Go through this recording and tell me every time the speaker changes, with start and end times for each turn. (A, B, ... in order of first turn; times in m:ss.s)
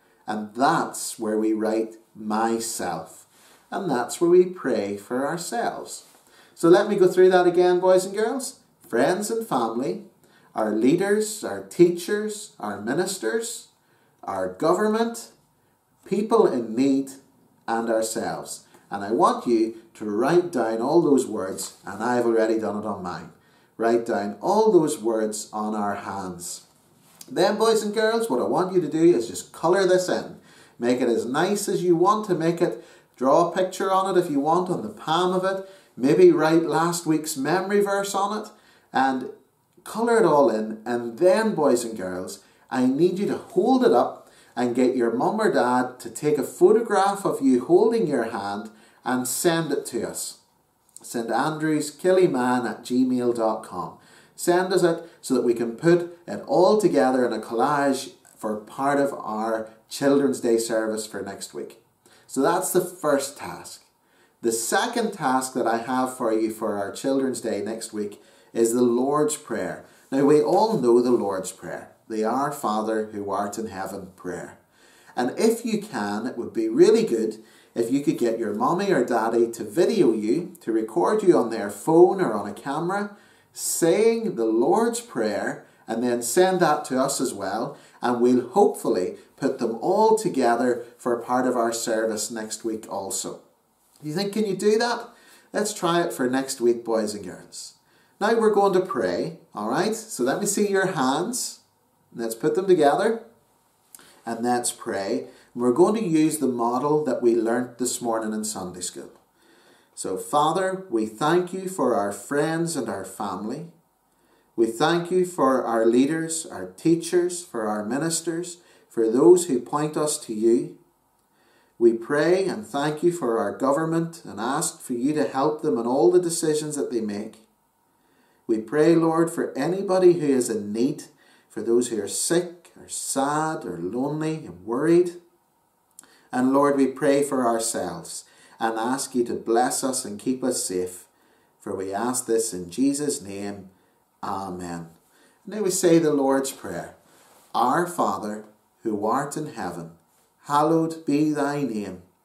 0:00.3-0:13.7 A
0:14.2-0:15.3 A
0:16.0-0:26.6 A
0:27.3-0:39.3 A
0:39.8-0:50.4 A
0:51.0-1:03.9 A
1:04.4-1:14.6 A
1:15.2-1:33.4 A
1:34.0-1:41.6 A
1:42.1-1:43.2 A
1:44.2-1:49.2 A
1:49.9-1:53.7 A
1:54.6-2:00.8 A
2:01.8-2:07.4 A
2:08.5-2:15.2 A
2:16.3-2:23.7 A
2:24.2-2:24.9 A
2:25.4-2:27.0 A
2:27.5-2:32.0 A